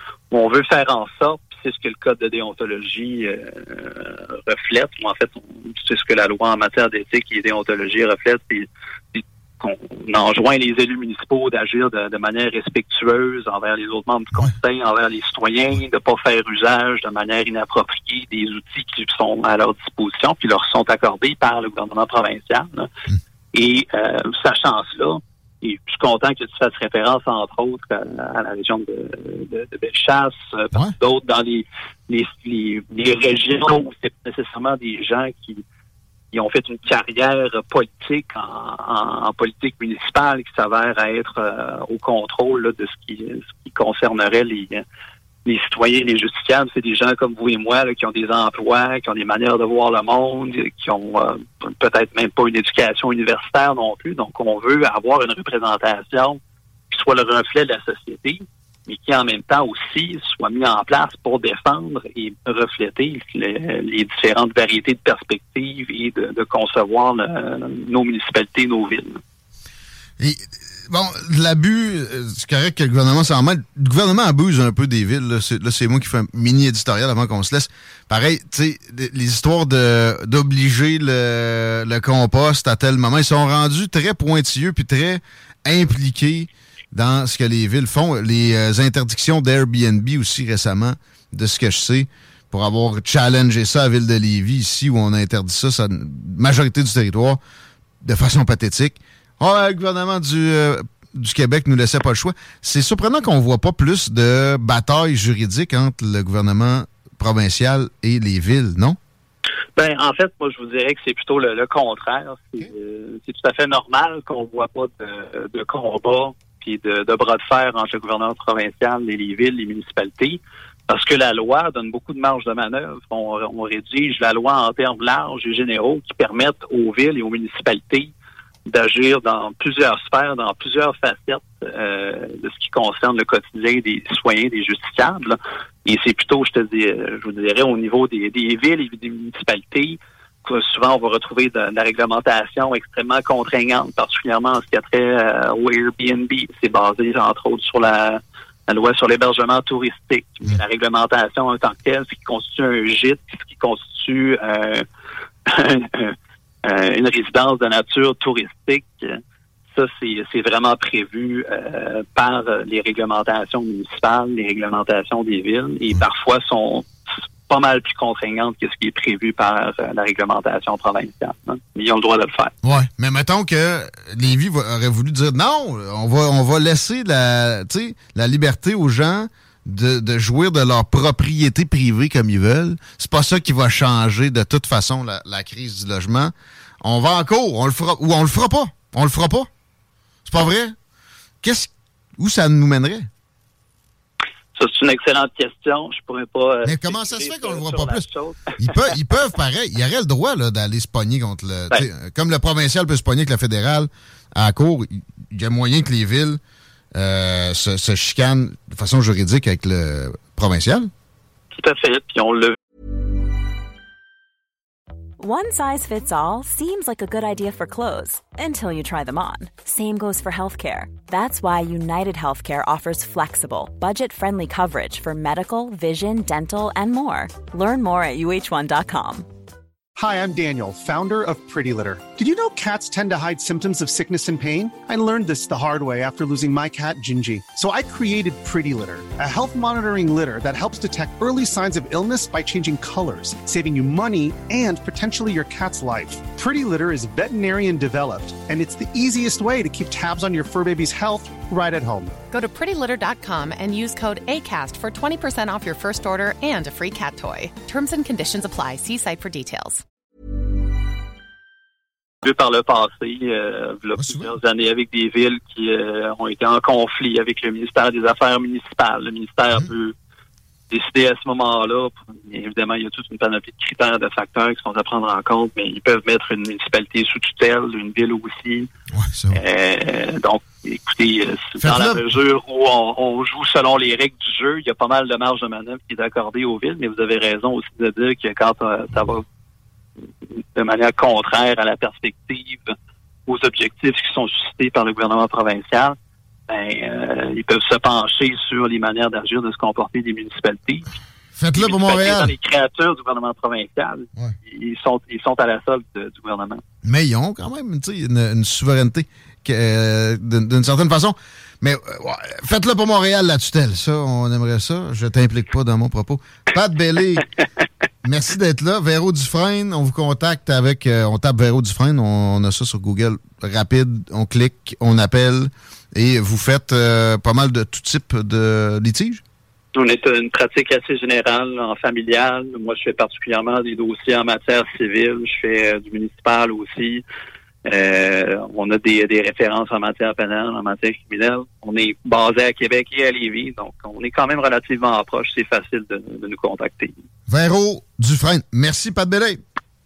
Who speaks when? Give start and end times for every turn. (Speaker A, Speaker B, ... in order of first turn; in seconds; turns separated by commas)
Speaker A: 0.3-22.9, Speaker A: 23.5-35.6, Speaker A: 36.3-44.8, Speaker A: 45.5-56.4, Speaker A: 56.9-69.2, Speaker B: 70.2-97.4, Speaker B: 98.0-109.0, Speaker A: 109.8-128.1, Speaker A: 128.7-154.9, Speaker A: 155.5-159.2, Speaker A: 159.7-166.8, Speaker A: 167.5-172.6, Speaker B: 172.6-189.5, Speaker B: 190.3-190.8, Speaker B: 191.4-193.1, Speaker A: 194.6-198.8, Speaker B: 196.6-198.1, Speaker B: 198.6-206.4, Speaker B: 206.9-210.9, Speaker A: 211.5-212.6, Speaker C: 215.2-229.3, Speaker D: 230.0-252.2, Speaker E: 252.3-259.8, Speaker A: 262.2-269.9, Speaker B: 264.0-264.3, Speaker A: 270.7-278.7, Speaker B: 278.9-279.4, Speaker A: 279.3-289.2, Speaker B: 281.6-282.1, Speaker A: 290.6-292.7, Speaker A: 293.3-296.0, Speaker A: 296.5-300.9, Speaker B: 301.4-302.3, Speaker A: 301.6-306.6, Speaker B: 306.8-317.3, Speaker B: 318.0-329.2, Speaker A: 329.7-337.0, Speaker A: 337.6-346.9, Speaker B: 347.3-349.4